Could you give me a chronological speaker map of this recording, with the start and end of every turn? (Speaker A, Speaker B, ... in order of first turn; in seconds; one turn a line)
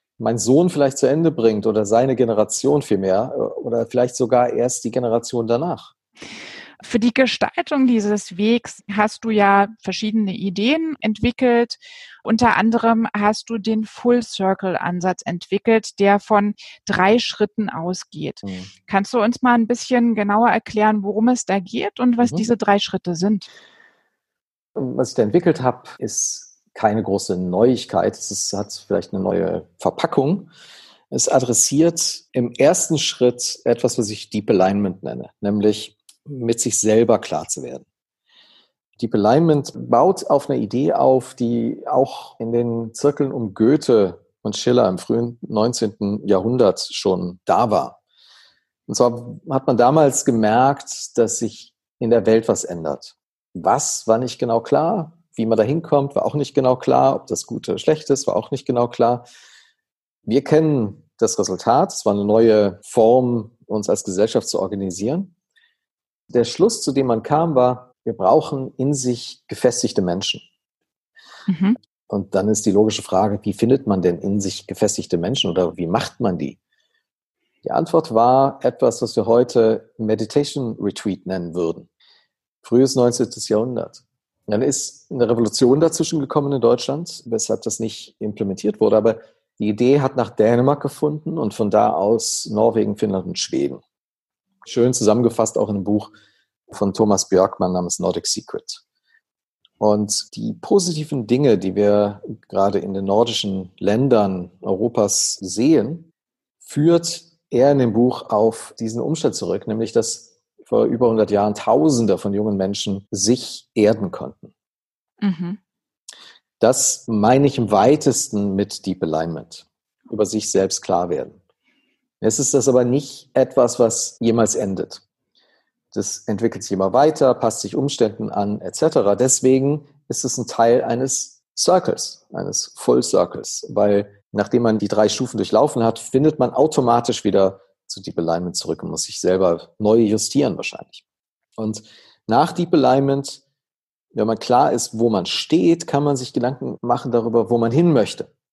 Speaker A: 0.2-5.9
Speaker B: 6.8-23.5
Speaker A: 18.4-18.7
Speaker A: 22.2-22.5
Speaker A: 24.8-30.5
Speaker A: 31.1-37.8
Speaker A: 39.0-48.0
Speaker A: 48.9-59.2
Speaker A: 60.2-65.3
Speaker A: 66.3-70.4
Speaker B: 71.5-71.8
Speaker A: 72.1-76.6
Speaker A: 77.6-81.9
Speaker A: 82.6-93.8
Speaker A: 94.6-96.1
Speaker A: 96.7-98.8
Speaker A: 99.8-106.1
Speaker A: 106.6-114.5
Speaker B: 115.2-115.6
Speaker A: 116.6-121.4
Speaker A: 122.2-125.0
Speaker A: 125.9-141.0
Speaker A: 141.6-143.4
Speaker A: 144.1-148.3